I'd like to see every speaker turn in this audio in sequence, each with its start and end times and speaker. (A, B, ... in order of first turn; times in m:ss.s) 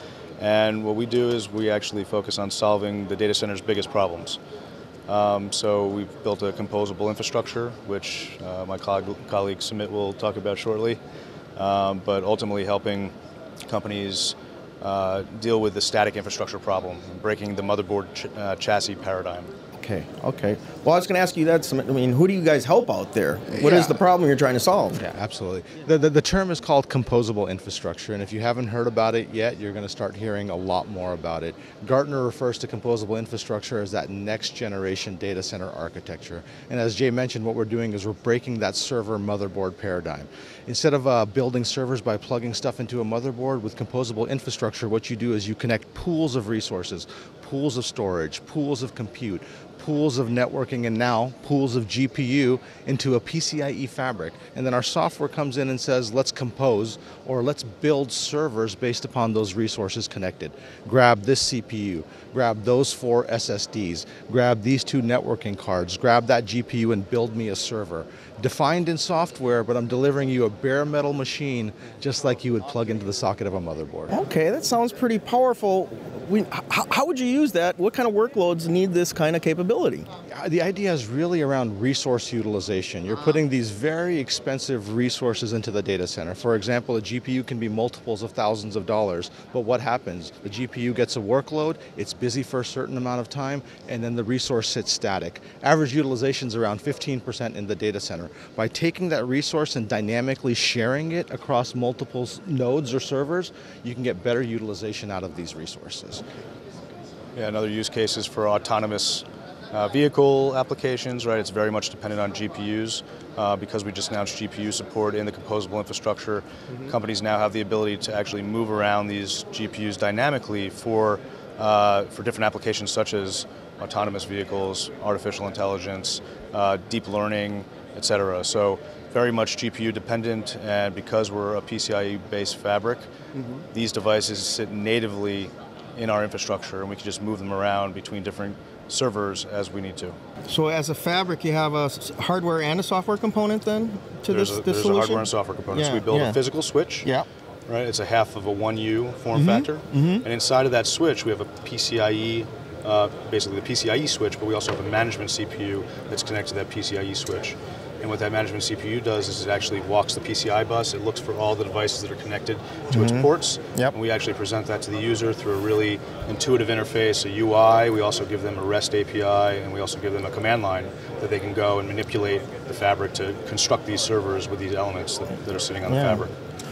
0:00.4-0:04.4 A
0:05.1-0:11.0 A
0:11.6-0:13.1 A
0:13.6-0:19.5 A
0:19.8-0:25.0 B
0:23.5-0:24.0 C
0:25.0-1:14.1 C
1:14.1-1:20.1 B
1:20.3-1:46.2 C
1:47.3-2:13.1 A
2:13.7-2:20.2 A
2:20.5-2:26.4 B
2:24.3-2:27.1 A
2:27.7-2:56.3 A
2:29.3-2:30.2 B
2:42.9-2:43.9 B
2:55.8-2:56.2 B